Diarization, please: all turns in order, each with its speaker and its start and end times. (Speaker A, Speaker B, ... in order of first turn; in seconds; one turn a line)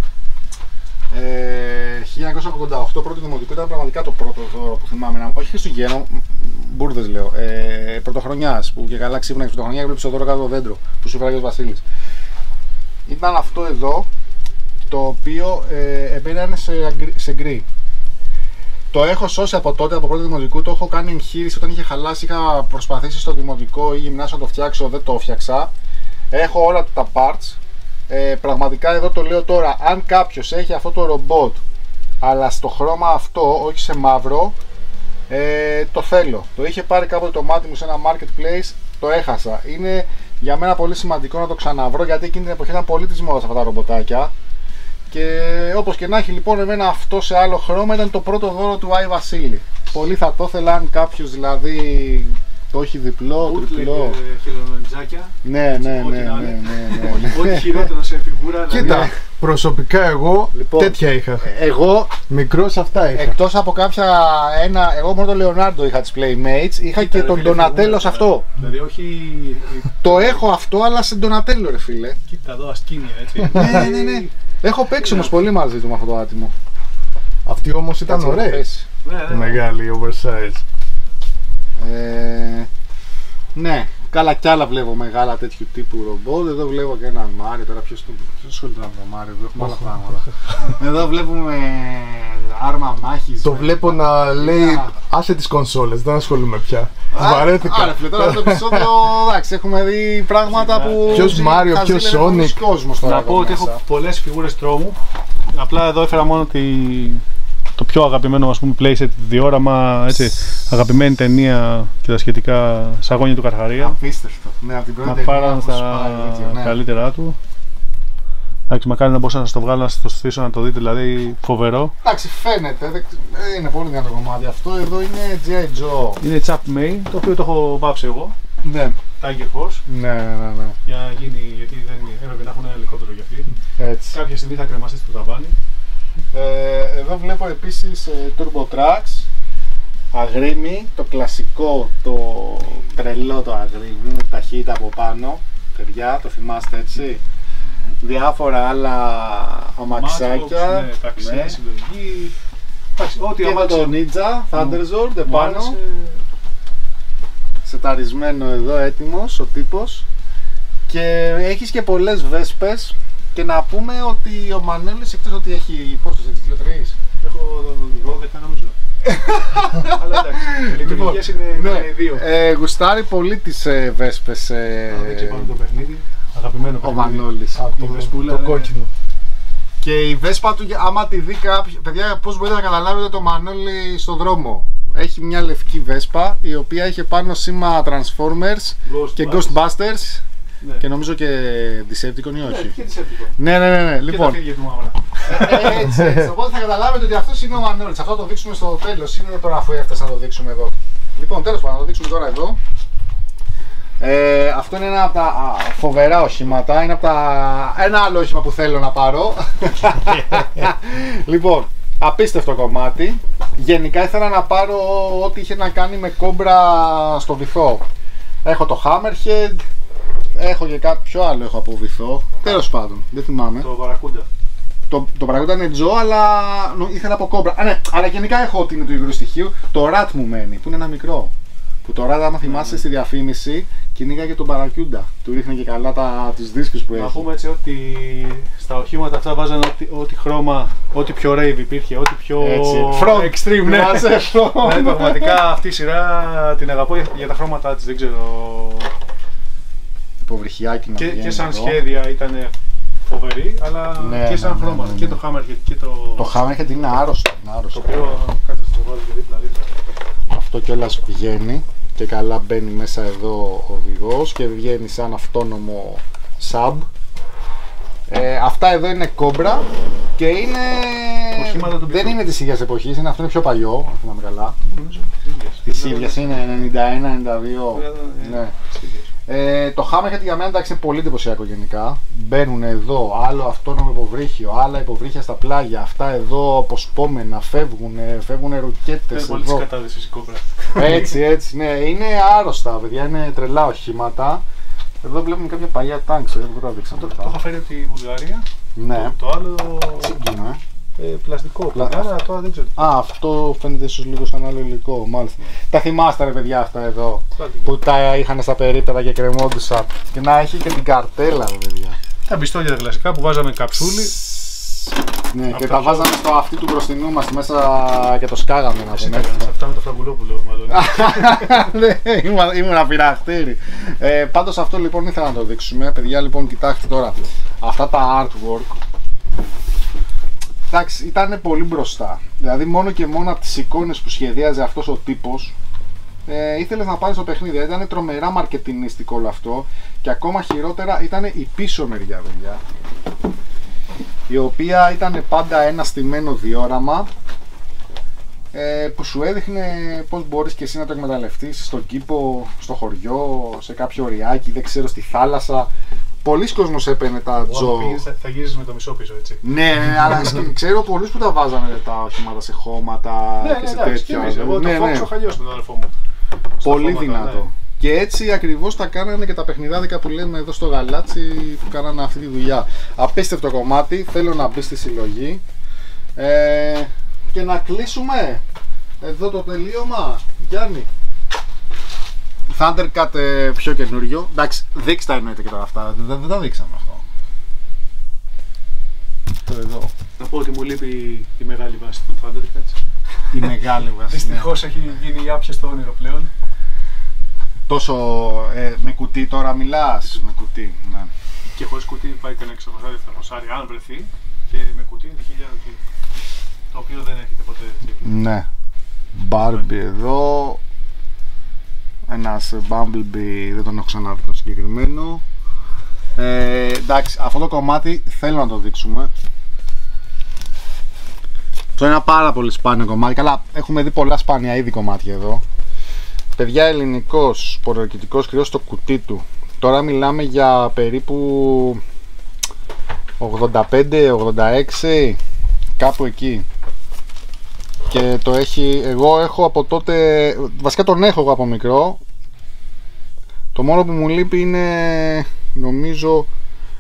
Speaker A: 1.1-11.8
Speaker A: 13.1-14.1
Speaker A: 14.9-17.7
Speaker A: 18.9-25.7
Speaker A: 26.3-31.6
Speaker A: 32.2-34.6
Speaker A: 35.3-44.3
Speaker A: 45.1-54.2
Speaker B: 53.4-59.1
Speaker A: 55.4-57.9
Speaker C: 58.7-61.5
Speaker A: 58.8-59.1
Speaker A: 60.5-62.2
Speaker C: 62.3-63.4
Speaker A: 63.1-68.5
Speaker B: 67.0-70.5
Speaker A: 70.0-72.2
Speaker B: 72.3-74.3
Speaker C: 73.5-73.9
Speaker A: 73.5-76.5
Speaker B: 75.0-75.3
Speaker C: 77.5-78.7
Speaker A: 78.1-78.9
Speaker B: 79.0-79.6
Speaker C: 79.3-80.6
Speaker A: 81.8-82.7
Speaker A: 83.5-94.9
Speaker C: 93.4-99.0
Speaker A: 97.1-103.8
Speaker B: 100.5-101.4
Speaker C: 101.1-102.6
Speaker B: 103.0-105.0
Speaker B: 105.5-107.2
Speaker B: 107.8-114.0
Speaker A: 113.8-116.8
Speaker B: 115.0-117.4
Speaker B: 118.7-121.9
Speaker A: 122.0-126.2
Speaker B: 126.2-128.4
Speaker A: 128.6-129.0
Speaker B: 129.2-129.8
Speaker A: 129.9-130.8
Speaker B: 130.9-133.5
Speaker A: 133.8-134.2
Speaker B: 134.1-135.6
Speaker A: 136.3-139.3
Speaker A: 140.1-147.2
Speaker A: 148.0-151.6
Speaker B: 149.9-152.3
Speaker B: 153.0-154.0
Speaker A: 153.4-155.8
Speaker B: 154.5-156.2
Speaker A: 157.6-160.1
Speaker A: 160.9-167.0
Speaker B: 167.2-168.8
Speaker A: 169.0-175.5
Speaker B: 169.8-172.2
Speaker B: 174.9-178.7
Speaker A: 176.8-177.6
Speaker C: 177.6-178.9
Speaker A: 179.8-190.2
Speaker B: 188.8-189.7
Speaker A: 190.8-192.8
Speaker B: 192.4-193.4
Speaker A: 193.4-194.4
Speaker B: 194.0-195.8
Speaker A: 195.2-202.6
Speaker A: 204.0-217.8
Speaker A: 218.4-219.6
Speaker A: 220.3-223.7
Speaker B: 223.6-224.3
Speaker A: 224.9-231.3
Speaker A: 231.8-237.3
Speaker B: 232.4-232.9
Speaker B: 236.9-248.9
Speaker A: 242.4-245.4
Speaker A: 250.2-251.8
Speaker B: 251.0-252.5
Speaker B: 253.1-256.4
Speaker A: 254.0-255.2
Speaker A: 256.2-258.1
Speaker B: 257.7-259.9
Speaker A: 260.3-266.9
Speaker A: 268.1-274.6
Speaker B: 271.4-272.2
Speaker B: 274.6-276.6
Speaker A: 275.6-278.5
Speaker B: 277.7-279.1
Speaker A: 279.3-289.6
Speaker B: 289.1-291.1
Speaker A: 290.8-294.4
Speaker A: 295.0-297.4
Speaker B: 296.9-300.2
Speaker A: 298.8-299.1
Speaker A: 300.0-300.6
Speaker B: 301.0-302.8
Speaker A: 301.7-302.1
Speaker A: 302.8-312.0
Speaker B: 307.4-307.8
Speaker B: 312.3-314.2
Speaker A: 313.8-319.5
Speaker B: 315.5-316.2
Speaker B: 318.9-321.7
Speaker A: 320.7-328.8
Speaker A: 330.7-335.5
Speaker A: 336.3-342.6
Speaker A: 344.3-347.1
Speaker A: 348.5-355.7
Speaker A: 356.2-358.0
Speaker B: 357.4-359.4
Speaker A: 359.4-365.1
Speaker B: 363.4-365.9
Speaker B: 366.6-367.5
Speaker A: 366.6-375.4
Speaker A: 376.2-378.4
Speaker A: 379.0-380.9
Speaker A: 382.5-387.0
Speaker A: 389.5-389.9
Speaker B: 390.2-392.8
Speaker A: 393.3-394.9
Speaker B: 394.0-396.3
Speaker A: 397.7-401.1
Speaker B: 401.6-405.8
Speaker B: 406.7-408.1
Speaker A: 408.0-408.5
Speaker A: 409.1-410.6
Speaker B: 409.4-409.7
Speaker A: 412.1-415.2
Speaker A: 416.2-419.1
Speaker A: 421.8-425.4
Speaker A: 426.4-431.8
Speaker A: 433.2-435.2
Speaker A: 435.8-436.5
Speaker A: 437.9-442.0
Speaker A: 443.5-446.3